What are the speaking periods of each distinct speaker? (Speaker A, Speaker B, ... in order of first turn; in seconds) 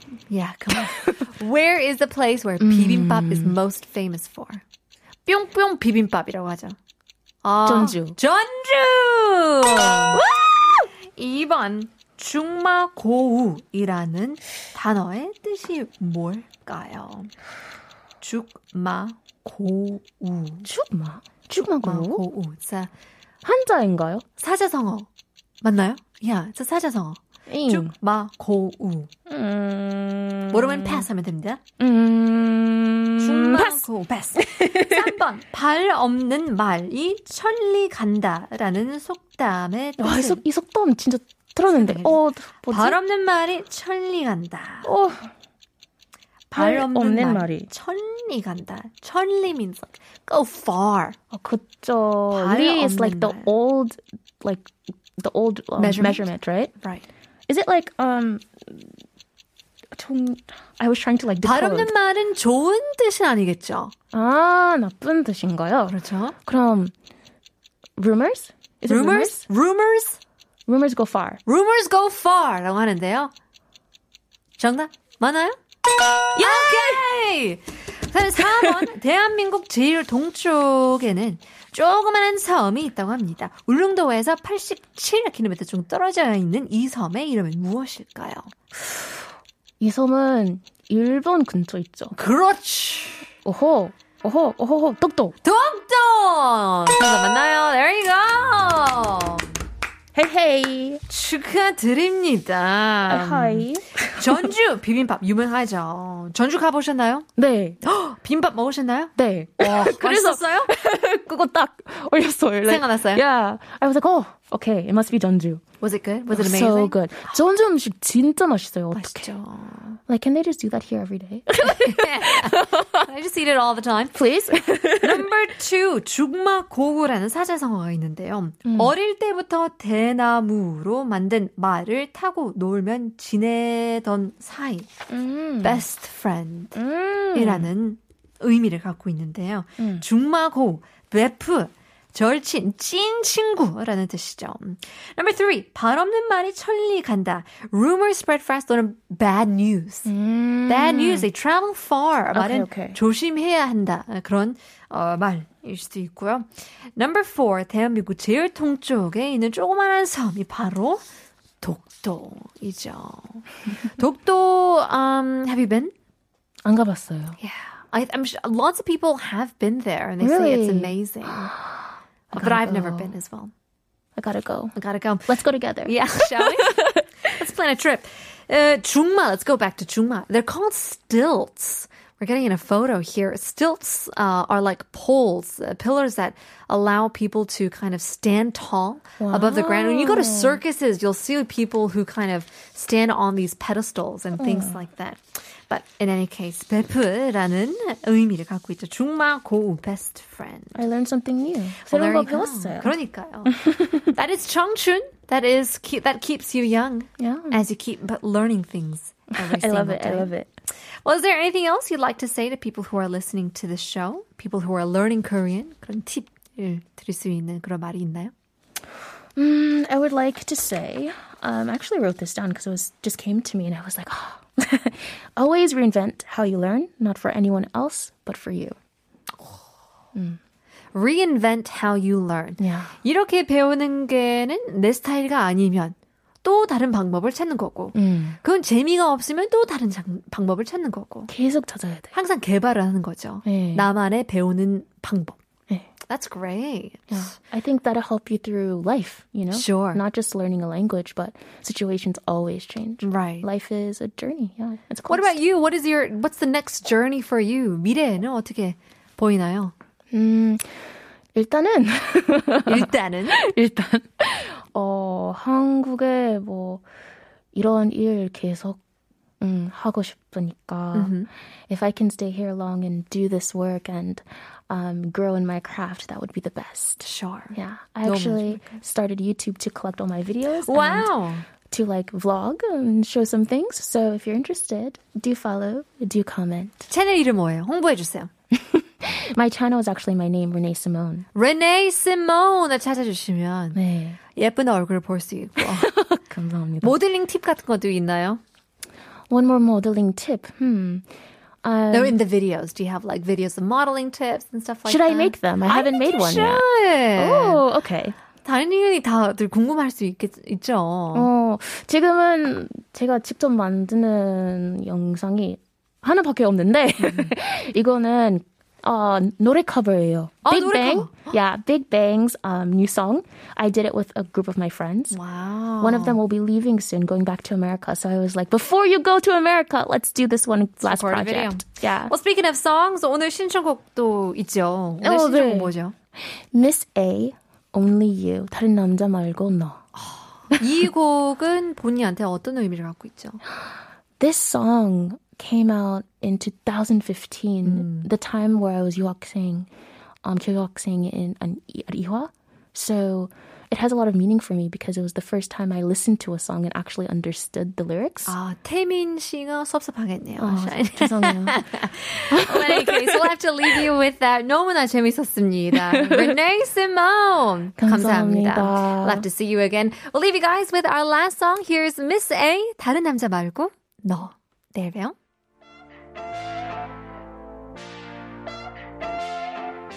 Speaker A: 0.3-4.6, 5.2-6.8, 7.4-17.3, 18.2-20.7, 21.8-22.9, 24.4-25.1, 25.6-29.1, 30.5-31.6, 33.2-40.4, 41.7-44.9, 46.5-51.2, 52.3-53.5, 55.8-56.3, 56.8-57.0, 61.4-63.9, 65.9-66.3, 68.9-70.2, 71.5-73.3, 74.6-75.6, 76.2-88.5, 92.1-93.3, 95.4-99.5, 101.1-107.3, 107.8-110.7, 112.7-113.2, 115.8-117.3, 118.9-120.0, 121.6-124.2, 125.0-134.9, 135.6-136.8, 137.3-150.1, 150.7-161.0, 161.6-165.9, 167.4-171.5, 172.3-173.5, 174.7-200.8, 201.8-203.6, 204.1-210.3, 211.0-218.3, 230.9-241.3, 242.1-245.4, 246.1-247.3, 249.5-250.0, 253.0-253.5, 255.1-259.7, 262.6-263.4, 270.9-271.3, 277.0-278.8, 280.5-281.4, 286.9-288.3, 291.3-293.8, 294.3-295.9, 296.8-298.4, 301.9-307.6, 308.4-311.3, 317.0-317.3, 320.4-321.3, 325.1-326.2, 330.8-335.9, 339.9-343.4, 347.6-348.1, 358.2-375.1
Speaker B: 0.7-1.3, 2.6-3.5, 7.6-8.2, 20.6-22.2, 23.4-24.2, 27.5-27.9, 29.3-31.1, 31.8-33.9, 34.4-35.2, 40.0-43.0, 44.8-45.3, 46.5-47.7, 51.3-56.7, 57.5-58.9, 59.9-61.9, 64.1-66.9, 68.0-69.4, 70.7-71.4, 76.3-77.0, 78.4-78.9, 89.8-92.1, 93.4-95.3, 100.1-101.0, 103.1-104.5, 107.4-107.8, 109.2-115.6, 116.3-119.3, 120.1-123.0, 124.1-125.3, 128.7-128.9, 135.1-135.8, 136.7-137.7, 139.8-140.0, 150.1-151.3, 152.3-153.0, 166.6-167.4, 170.2-170.9, 172.3-173.1, 174.2-174.8, 175.3-177.0, 189.2-190.6, 194.3-194.8, 200.7-204.1, 207.2-207.6, 209.4-210.5, 219.3-228.8, 230.1-230.4, 232.6-232.9, 237.9-238.4, 241.3-242.1, 243.4-243.9, 247.1-255.4, 260.1-260.8, 261.3-266.8, 267.5-268.8, 269.4-271.1, 271.7-281.1, 281.6-286.9, 288.5-291.2, 293.7-294.2, 295.6-297.0, 299.3-301.1, 301.6-302.2, 304.9-306.6, 307.1-308.1, 311.1-325.2, 325.8-332.1, 335.0-339.8, 344.2-349.7, 350.2-358.4, 360.4-361.6, 362.3-363.8, 365.7-366.4, 367.8-369.2